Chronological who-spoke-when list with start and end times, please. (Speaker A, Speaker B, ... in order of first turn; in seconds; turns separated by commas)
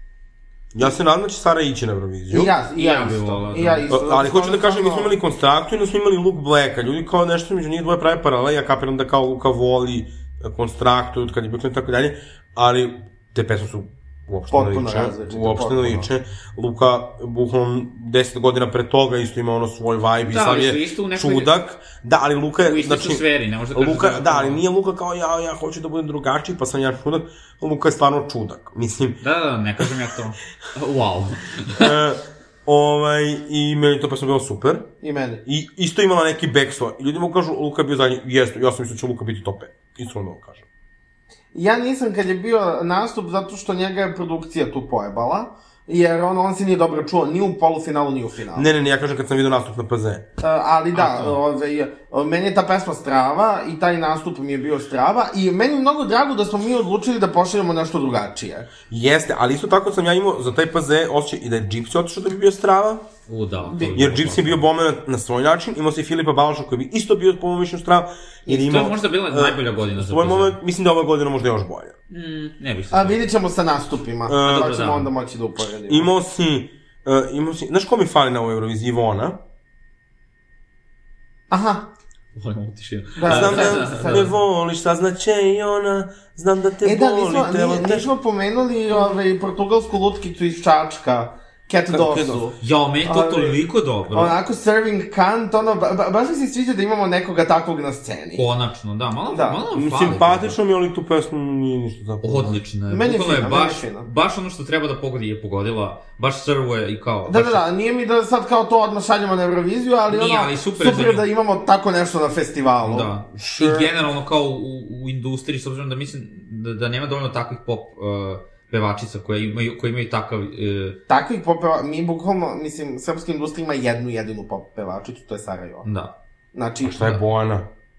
Speaker A: 0.7-2.5, Speaker B: 2.3-5.1, Speaker C: 2.7-3.9, Speaker A: 3.9-23.2, Speaker B: 14.5-16.1, Speaker C: 20.3-21.5, Speaker C: 22.6-24.6, Speaker A: 23.7-29.2, Speaker C: 29.2-32.0, Speaker A: 31.7-34.9, Speaker B: 35.0-35.4, Speaker A: 35.5-40.6, Speaker B: 41.5-48.7, Speaker A: 48.5-50.2, Speaker B: 50.4-58.7, Speaker C: 50.9-51.4, Speaker A: 58.9-63.1, Speaker C: 63.3-64.6, Speaker B: 63.7-64.0, Speaker A: 63.9-72.0, Speaker C: 68.5-70.6, Speaker C: 72.1-73.3, Speaker B: 72.9-76.1, Speaker A: 74.3-74.7, Speaker C: 74.4-75.1, Speaker A: 75.9-79.4, Speaker B: 81.5-81.9, Speaker C: 82.4-84.3, Speaker B: 83.2-84.3, Speaker A: 83.3-88.1, Speaker B: 86.8-93.6, Speaker A: 91.9-92.5, Speaker C: 92.6-94.4, Speaker B: 94.1-98.4, Speaker C: 98.3-100.6, Speaker B: 99.3-99.6, Speaker A: 99.7-102.6, Speaker C: 102.2-107.7, Speaker B: 102.9-104.1, Speaker B: 107.3-113.9, Speaker C: 110.1-111.3, Speaker C: 112.8-121.0, Speaker B: 121.1-125.9, Speaker C: 125.8-126.1, Speaker B: 126.5-127.0, Speaker A: 126.8-127.7